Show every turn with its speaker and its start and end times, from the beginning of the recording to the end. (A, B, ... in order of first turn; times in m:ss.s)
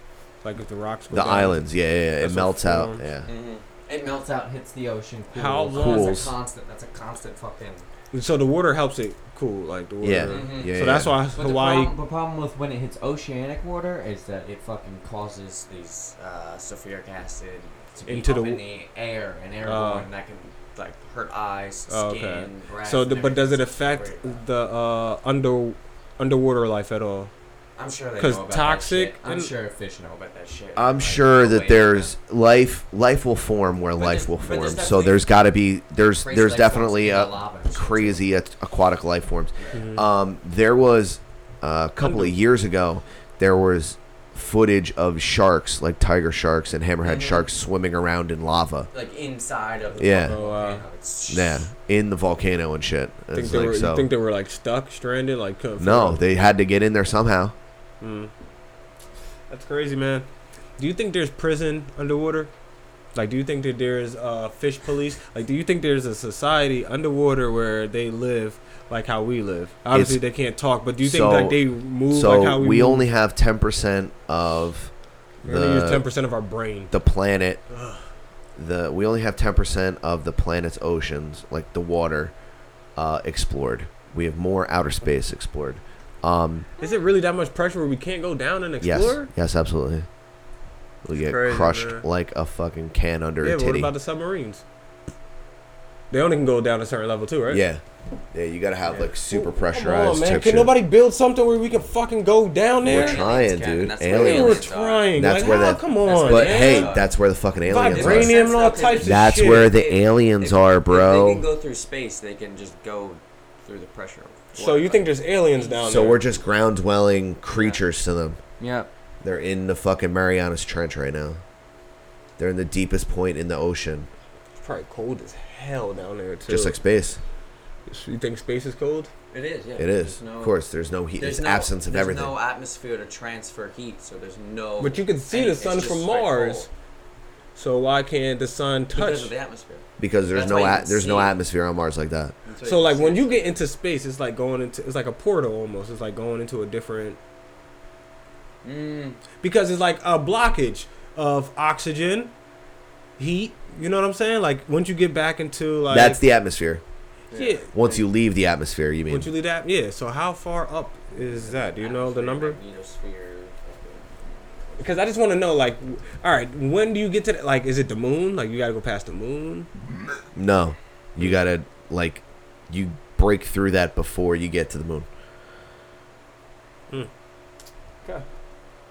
0:00.4-0:01.7 A
0:01.1-0:03.3 B
0:02.2-0:03.1 A
0:03.2-0:07.9 C
0:05.3-0:06.3 A
0:05.8-0:06.3 B
0:08.1-0:11.9 A
0:10.0-0:11.2 B
0:10.2-0:24.4 C
0:18.1-0:18.6 A
0:19.6-0:20.1 A
0:21.9-0:27.3 A
0:27.8-0:32.1 C
0:28.2-0:29.5 A
0:30.8-0:48.9 B
0:34.0-0:35.2 C
0:36.2-0:38.2 C
0:39.7-0:40.1 A
0:42.0-0:42.4 A
0:47.0-0:47.5 C
0:48.9-0:51.7 C
0:50.0-0:50.4 B
0:50.0-0:50.8 A
0:51.3-0:54.1 B
0:53.3-0:56.2 A
0:55.8-0:57.6 B
0:58.0-0:58.3 A
0:59.5-1:02.5 A
1:03.2-1:13.1 A
1:09.9-1:10.2 B
1:11.0-1:14.9 B
1:15.4-1:16.9 A
1:15.5-1:16.0 B
1:16.9-1:17.6 B
1:17.7-1:18.1 A
1:18.6-1:22.4 B
1:23.0-1:26.7 B
1:26.8-1:29.3 A
1:28.8-1:30.1 B
1:31.0-1:33.9 B
1:31.2-1:32.1 A
1:33.4-1:34.6 A
1:36.1-1:37.6 A
1:37.5-1:37.8 B
1:38.3-1:40.7 B
1:38.8-1:43.2 A
1:42.8-1:48.4 B
1:42.8-1:47.1 C
1:44.1-1:47.0 A
1:47.6-1:49.7 A
1:47.8-1:56.1 C
1:49.0-1:51.5 B
1:54.6-1:56.2 A
1:55.8-1:58.4 B
1:57.5-1:57.8 C
1:58.6-1:58.9 C
1:59.2-2:01.4 B
2:02.4-2:04.1 B
2:04.6-2:06.8 A
2:06.5-2:07.2 B
2:07.9-2:09.1 A
2:09.3-2:10.6 C
2:09.8-2:12.4 B
2:11.2-2:16.7 C
2:14.8-2:16.7 A
2:17.6-2:19.3 A
2:18.9-2:21.3 C
2:20.0-2:22.4 B
2:22.5-2:23.6 C
2:22.6-2:27.2 A
2:28.6-2:29.2 C
2:29.4-2:32.3 A
2:33.2-2:36.2 A
2:35.9-2:36.8 B
2:37.3-2:38.0 C
2:37.3-2:37.7 A
2:37.7-2:39.3 B
2:39.1-2:42.6 A
2:41.2-2:44.8 C
2:44.8-2:49.7 A
2:50.3-2:55.1 B